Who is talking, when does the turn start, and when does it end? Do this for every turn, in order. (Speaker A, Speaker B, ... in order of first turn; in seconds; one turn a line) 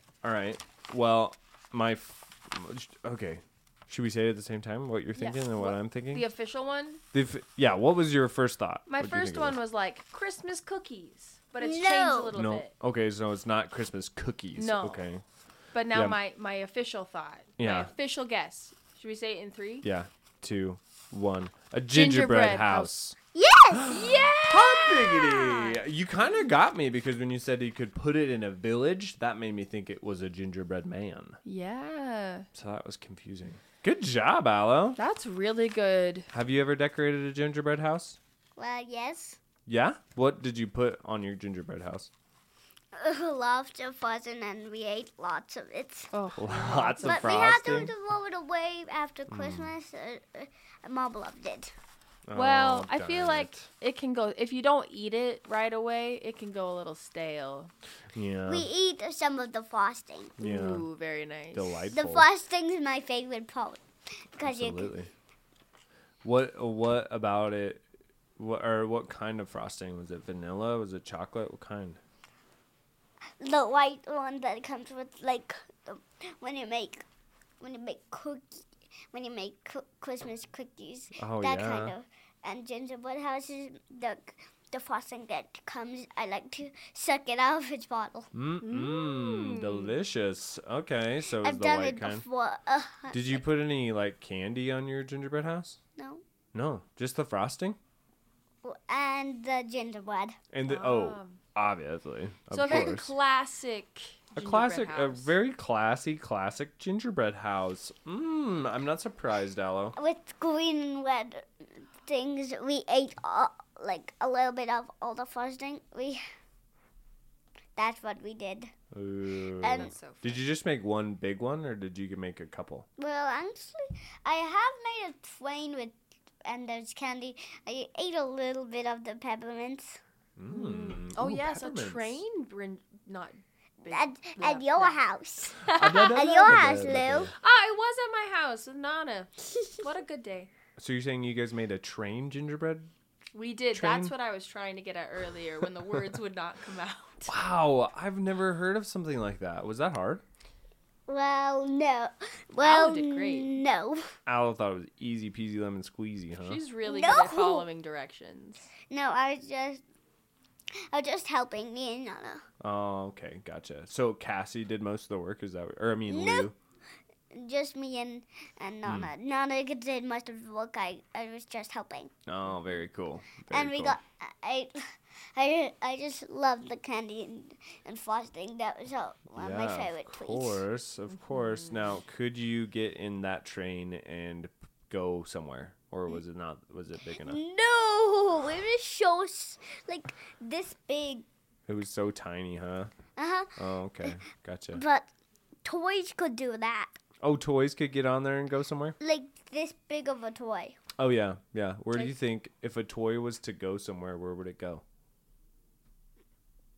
Speaker A: 0.2-6.3
Speaker B: 5.1-7.0
Speaker A: 7.1-9.6
Speaker B: 8.9-12.7
Speaker C: 11.6-12.3
Speaker A: 12.3-15.2
Speaker B: 14.6-15.0
Speaker B: 15.7-19.9
Speaker A: 15.9-16.2
Speaker A: 17.6-17.9
Speaker A: 19.8-23.1
Speaker B: 21.9-23.1
Speaker C: 23.3-24.0
Speaker A: 23.7-31.4
Speaker B: 23.9-25.8
Speaker B: 31.4-32.5
Speaker A: 32.5-35.0
Speaker B: 35.0-36.3
Speaker A: 36.3-38.2
Speaker C: 38.5-39.4
Speaker A: 39.6-42.1
Speaker C: 42.9-46.1
Speaker B: 46.1-47.9
Speaker A: 46.4-47.9
Speaker C: 47.0-51.7
Speaker A: 49.3-49.7
Speaker A: 52.3-53.7
Speaker B: 52.3-57.7
Speaker A: 58.1-58.7
Speaker C: 58.5-60.3
Speaker A: 60.4-60.9
Speaker B: 60.4-61.9
Speaker A: 61.5-62.3
Speaker C: 61.9-64.9
Speaker A: 64.4-65.1
Speaker A: 66.2-67.8
Speaker A: 68.4-72.0
Speaker C: 73.4-77.0
Speaker C: 77.6-88.3
Speaker A: 81.2-81.9
Speaker A: 88.3-92.2
Speaker B: 88.6-89.9
Speaker C: 91.3-93.4
Speaker A: 93.1-95.8
Speaker C: 96.0-96.2
Speaker A: 96.5-97.8
Speaker C: 98.6-100.4
Speaker A: 100.5-103.1
Speaker B: 100.7-101.4
Speaker B: 102.5-105.3
Speaker C: 102.6-103.0
Speaker A: 104.3-110.0
Speaker C: 110.0-116.2
Speaker C: 117.8-118.7
Speaker A: 118.9-122.9
Speaker C: 119.6-119.9
Speaker B: 119.7-120.4
Speaker C: 123.0-130.0
Speaker A: 130.4-132.2
Speaker B: 130.5-135.0
Speaker C: 133.9-137.3
Speaker B: 135.6-136.8
Speaker A: 135.7-137.3
Speaker B: 137.4-140.5
Speaker A: 140.8-142.9
Speaker B: 143.3-147.3
Speaker A: 143.7-144.1
Speaker A: 147.2-150.2
Speaker C: 151.1-154.1
Speaker B: 152.6-153.5
Speaker A: 154.3-156.6
Speaker B: 156.4-158.7
Speaker C: 156.8-157.7
Speaker C: 158.9-159.8
Speaker C: 160.9-162.4
Speaker A: 162.6-166.5
Speaker C: 166.1-166.5
Speaker C: 167.3-172.1
Speaker A: 168.8-169.1
Speaker A: 172.2-174.0
Speaker C: 173.5-180.6
Speaker A: 179.4-187.4
Speaker C: 187.2-191.2
Speaker A: 191.7-192.9
Speaker C: 193.2-194.1
Speaker A: 193.6-194.8
Speaker C: 194.7-195.1
Speaker C: 195.6-197.0
Speaker A: 197.2-199.0
Speaker C: 199.0-200.8
Speaker A: 201.0-204.8